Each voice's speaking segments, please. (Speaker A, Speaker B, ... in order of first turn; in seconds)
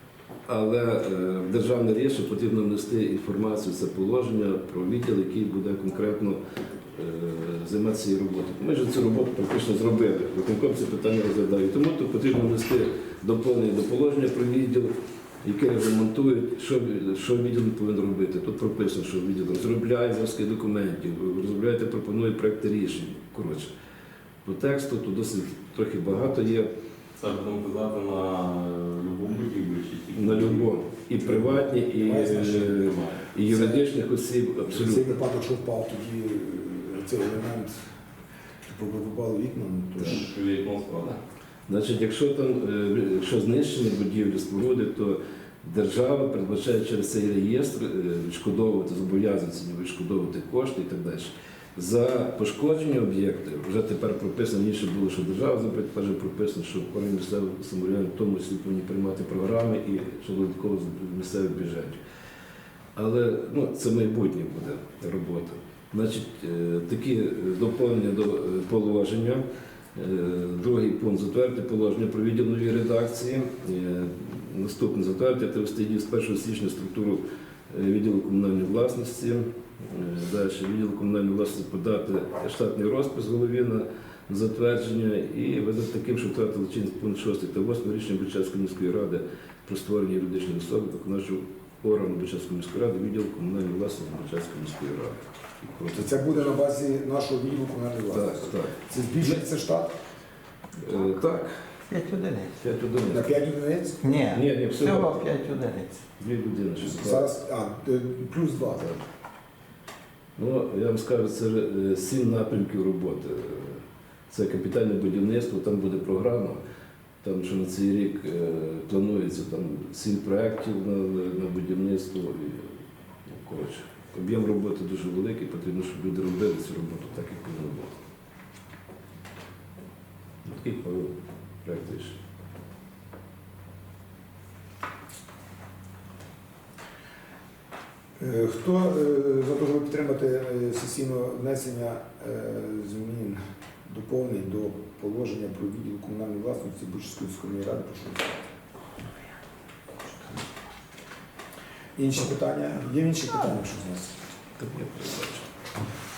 Speaker A: 0.5-6.4, 6.9-23.7, 24.4-26.7, 30.1-35.1, 41.7-62.0, 62.9-69.4, 69.9-96.5, 98.1-99.4, 100.8-101.5, 102.6-103.3, 104.3-105.3, 106.2-107.3, 110.3-116.6, 117.2-122.7, 123.3-127.9, 130.4-131.1, 131.6-132.2, 154.6-155.5
Speaker B: 27.2-30.8, 32.6-33.3, 40.0-41.2
Speaker C: 31.2-32.9, 33.5-33.9, 34.7-37.7, 38.6-40.3, 95.9-99.9, 103.1-104.0, 106.8-108.9, 138.2-148.3, 152.0-154.1
Speaker D: 101.9-102.5, 104.0-106.0